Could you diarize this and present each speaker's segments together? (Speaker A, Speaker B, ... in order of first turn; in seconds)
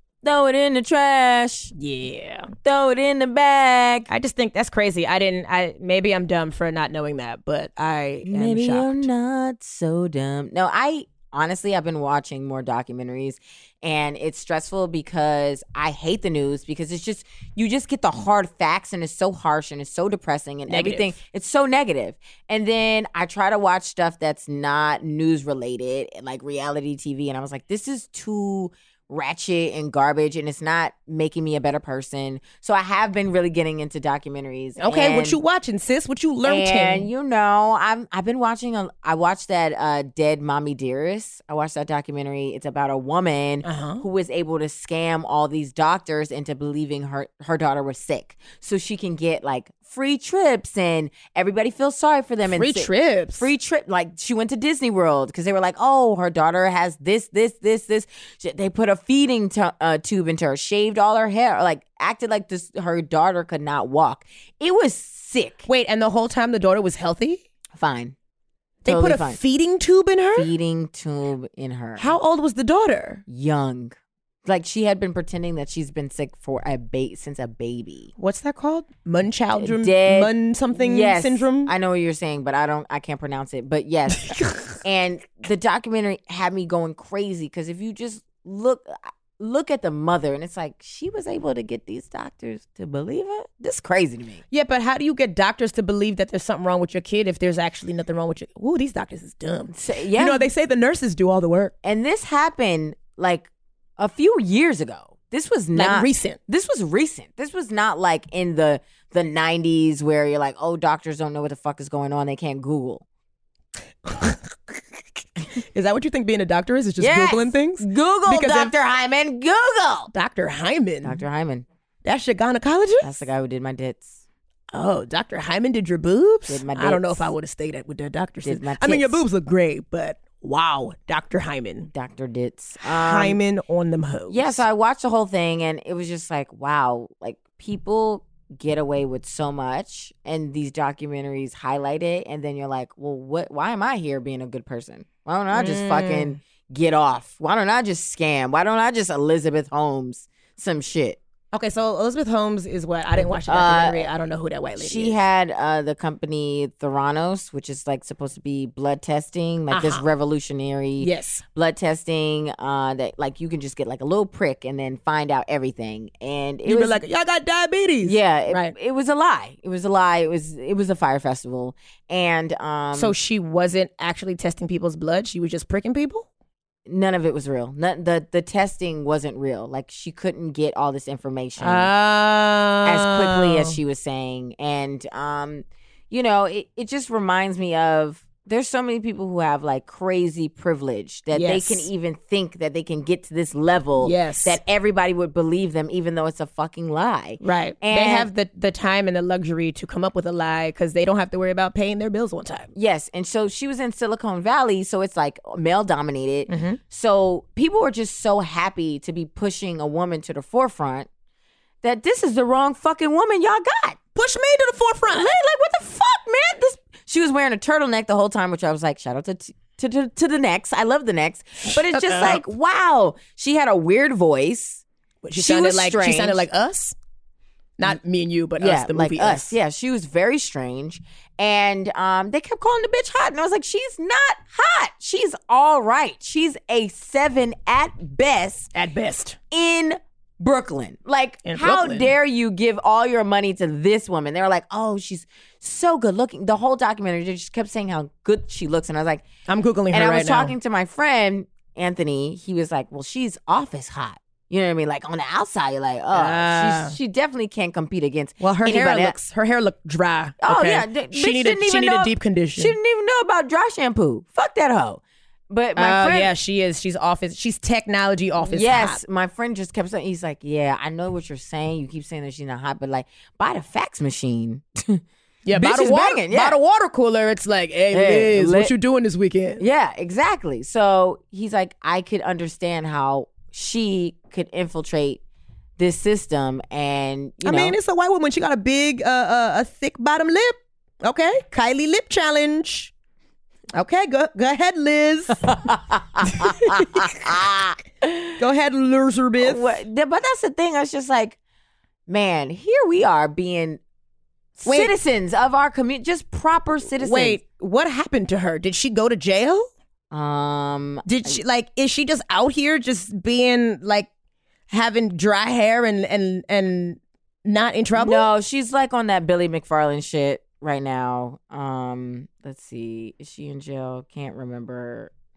Speaker A: 0.2-1.7, 2.6-4.1, 8.2-35.4, 36.4-65.7, 67.8-68.2, 68.8-69.4, 70.3-72.1, 73.3-78.1, 79.6-94.4, 99.7-100.5, 101.8-113.0, 117.0-120.1, 121.0-121.6, 123.0-124.2, 126.5-127.3, 128.4-129.2, 131.9-133.4, 134.3-151.2, 153.2-154.1, 154.8-167.0, 168.0-173.1, 176.9-181.9, 182.8-198.3, 202.8-211.1, 211.8-214.0, 215.1-224.8, 225.4-226.4, 228.6-238.7, 239.5-249.2, 249.9-259.1, 260.4-266.3, 268.4-275.0, 275.6-276.6, 277.9-278.7, 279.6-285.2, 285.8-287.8, 295.4-298.4, 299.4-301.4, 302.1-303.8, 304.6-307.4, 310.1-311.4, 317.9-325.1
Speaker B: 1.8-2.5, 4.1-9.1, 20.7-21.2, 34.8-37.1, 43.6-44.0, 52.5-53.5, 65.7-67.4, 68.8-70.5, 72.0-73.2, 78.2-81.7, 84.3-84.6, 94.5-101.7, 105.7-106.4, 114.0-114.8, 115.6-118.7, 120.1-121.2, 122.0-123.2, 124.7-131.9, 132.8-134.6, 145.5-146.4, 151.5-155.2, 159.7-160.0, 161.0-161.4, 166.6-168.7, 172.9-176.3, 181.6-183.8, 191.3-191.9, 194.0-194.6, 197.4-202.7, 206.5-206.8, 214.1-215.3, 221.7-222.4, 225.2-226.9, 227.8-229.5, 238.7-239.4, 241.4-242.1, 249.5-250.5, 256.1-256.9, 258.4-262.8, 265.8-269.0, 275.4-279.6, 287.4-292.9, 293.7-295.5, 296.2-297.2, 298.4-299.8, 304.6-304.9, 307.0-309.7, 311.1-314.1, 314.7-318.3